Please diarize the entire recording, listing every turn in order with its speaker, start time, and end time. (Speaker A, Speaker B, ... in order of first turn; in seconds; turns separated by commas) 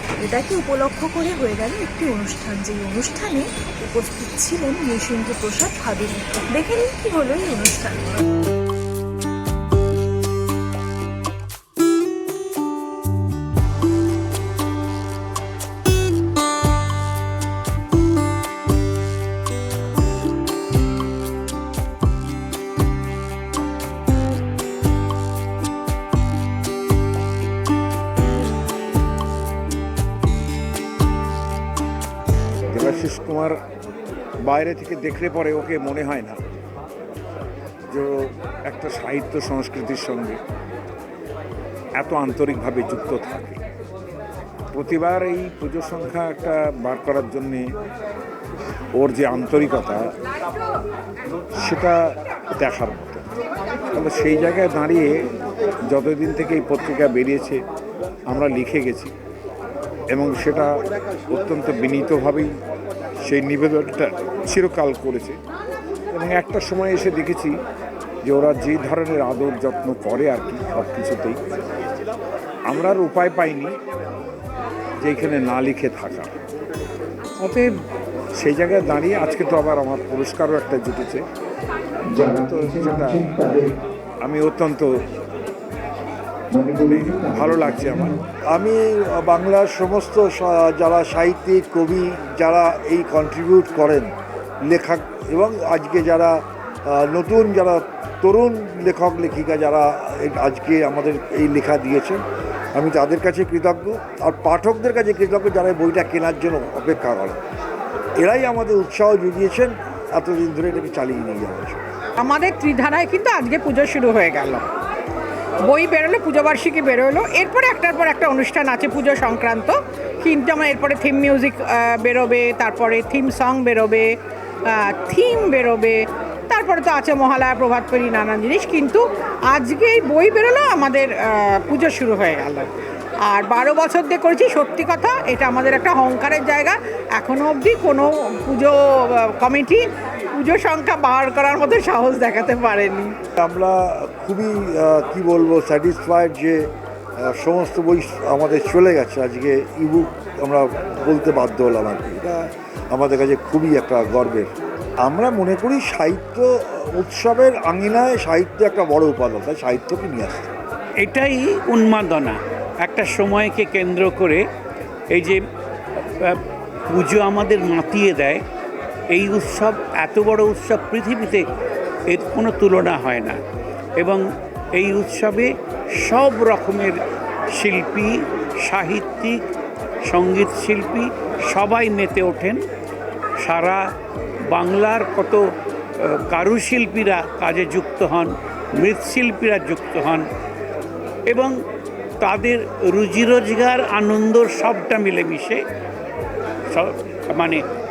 Speaker A: 0.2-8.2, Speaker B: 32.7-33.6, Speaker B: 34.5-36.4, Speaker B: 37.9-40.4, Speaker B: 42.0-43.6, Speaker B: 44.7-47.7, Speaker B: 49.0-50.0, Speaker B: 51.6-52.0, Speaker B: 52.5-53.3, Speaker B: 53.9-55.2, Speaker B: 55.9-57.6, Speaker B: 58.3-59.1, Speaker B: 60.1-60.8, Speaker B: 61.3-62.5, Speaker B: 63.2-65.4, Speaker B: 66.1-67.5, Speaker B: 68.2-71.4, Speaker B: 72.7-73.8, Speaker B: 75.0-76.3, Speaker B: 77.4-77.7, Speaker B: 78.4-81.2, Speaker C: 82.2-83.7, Speaker B: 82.3-83.3, Speaker B: 84.2-84.9, Speaker C: 86.6-94.1, Speaker B: 86.8-88.2, Speaker C: 94.7-102.2, Speaker C: 102.8-107.4, Speaker C: 108.2-111.8, Speaker D: 112.2-114.7, Speaker D: 115.6-124.1, Speaker D: 124.7-143.2, Speaker C: 143.4-146.7, Speaker C: 147.2-154.5, Speaker C: 155.1-160.5, Speaker E: 161.0-164.4, Speaker E: 165.1-165.4, Speaker E: 166.0-168.4, Speaker E: 169.1-171.5, Speaker E: 172.1-173.4, Speaker E: 174.0-177.0, Speaker E: 177.6-179.4, Speaker E: 180.1-182.6, Speaker E: 183.4-183.9, Speaker E: 184.5-190.3, Speaker E: 191.3-191.6, Speaker E: 192.2-195.6, Speaker E: 196.7-197.6